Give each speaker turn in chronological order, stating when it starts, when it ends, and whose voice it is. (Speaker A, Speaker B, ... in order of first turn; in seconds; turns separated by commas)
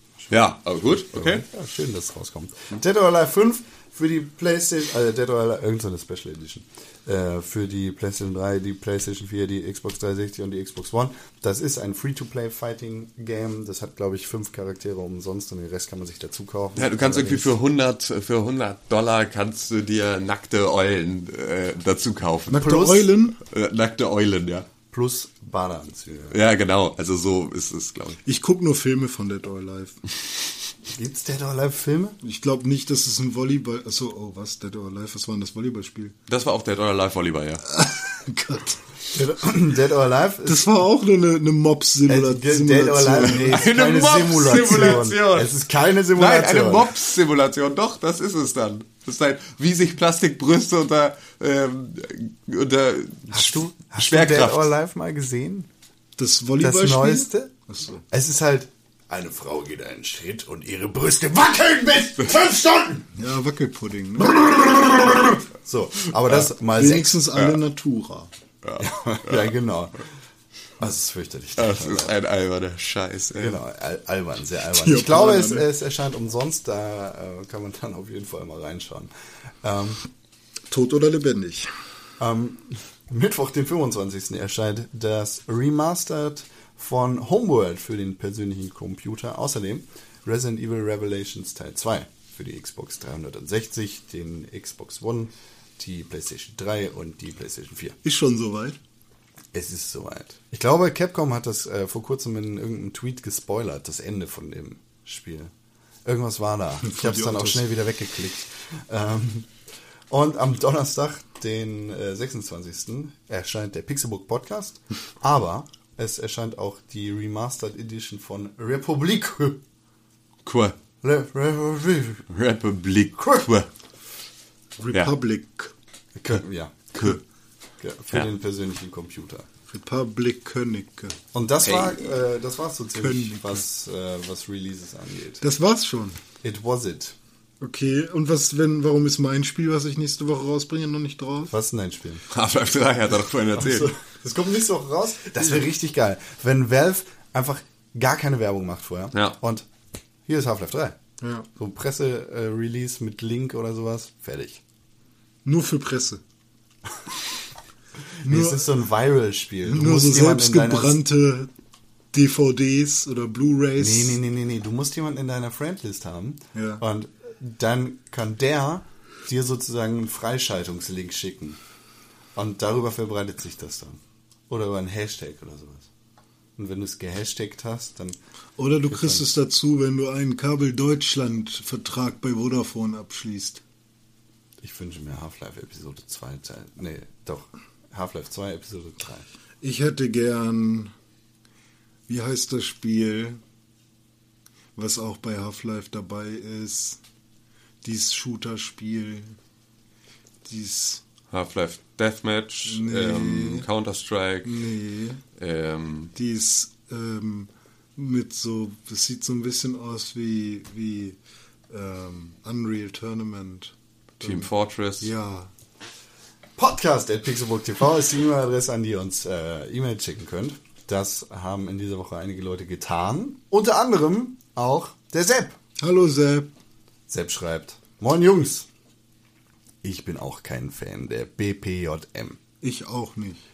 Speaker A: 0.3-1.4, Speaker B: 0.8-17.5, Speaker A: 16.8-24.7, Speaker C: 22.5-23.4, Speaker B: 24.9-26.4, Speaker A: 26.3-28.2, Speaker C: 28.2-30.0, Speaker B: 30.9-32.2, Speaker C: 32.2-36.1, Speaker A: 36.3-37.6, Speaker C: 37.7-38.8, Speaker B: 39.1-40.7, Speaker C: 40.5-43.6, Speaker B: 42.1-46.9, Speaker A: 43.5-45.5, Speaker C: 44.5-45.0, Speaker A: 46.2-54.7, Speaker B: 53.3-55.7, Speaker C: 56.2-58.0, Speaker B: 56.6-57.5, Speaker B: 58.1-63.1, Speaker C: 63.2-64.4, Speaker B: 64.2-67.2, Speaker C: 66.3-68.3, Speaker A: 68.6-69.5, Speaker B: 68.8-70.0, Speaker B: 70.8-72.1, Speaker A: 71.6-73.6, Speaker B: 73.4-79.1, Speaker C: 74.8-75.7, Speaker B: 79.6-80.0, Speaker C: 80.7-81.7, Speaker B: 82.2-98.0, Speaker C: 98.0-98.8, Speaker B: 99.5-105.5, Speaker B: 106.0-109.5, Speaker C: 106.8-107.7, Speaker B: 110.1-119.6, Speaker A: 120.5-120.8, Speaker B: 121.0-122.2, Speaker A: 122.3-123.7, Speaker C: 124.8-125.7, Speaker B: 126.2-127.1, Speaker B: 127.8-129.5, Speaker C: 129.7-131.2, Speaker B: 131.3-135.4, Speaker A: 131.6-132.0, Speaker C: 133.0-133.6, Speaker C: 135.4-136.2, Speaker B: 136.4-137.2, Speaker C: 137.6-141.5, Speaker B: 141.5-142.2, Speaker A: 142.3-143.9, Speaker B: 143.6-149.7, Speaker B: 150.3-151.0, Speaker C: 151.2-151.5, Speaker B: 151.6-154.6, Speaker C: 155.4-156.2, Speaker C: 158.2-158.7, Speaker B: 158.2-161.0, Speaker C: 159.7-161.5, Speaker C: 162.1-164.2, Speaker B: 163.8-171.6, Speaker C: 166.6-166.8, Speaker B: 172.3-175.9, Speaker B: 176.6-178.2, Speaker C: 178.6-183.6, Speaker B: 178.9-179.3, Speaker B: 184.6-189.3, Speaker C: 189.6-190.9, Speaker C: 192.1-193.4, Speaker C: 194.8-197.0, Speaker C: 197.8-199.3, Speaker C: 200.4-201.0, Speaker A: 201.3-204.5, Speaker C: 202.7-203.7, Speaker C: 204.4-205.2, Speaker A: 205.4-206.1, Speaker C: 206.2-211.2, Speaker C: 211.7-214.5, Speaker A: 214.2-215.1, Speaker C: 215.0-215.5, Speaker B: 216.6-225.6, Speaker C: 225.8-226.5, Speaker B: 227.1-228.7, Speaker B: 229.8-232.4, Speaker C: 232.6-233.4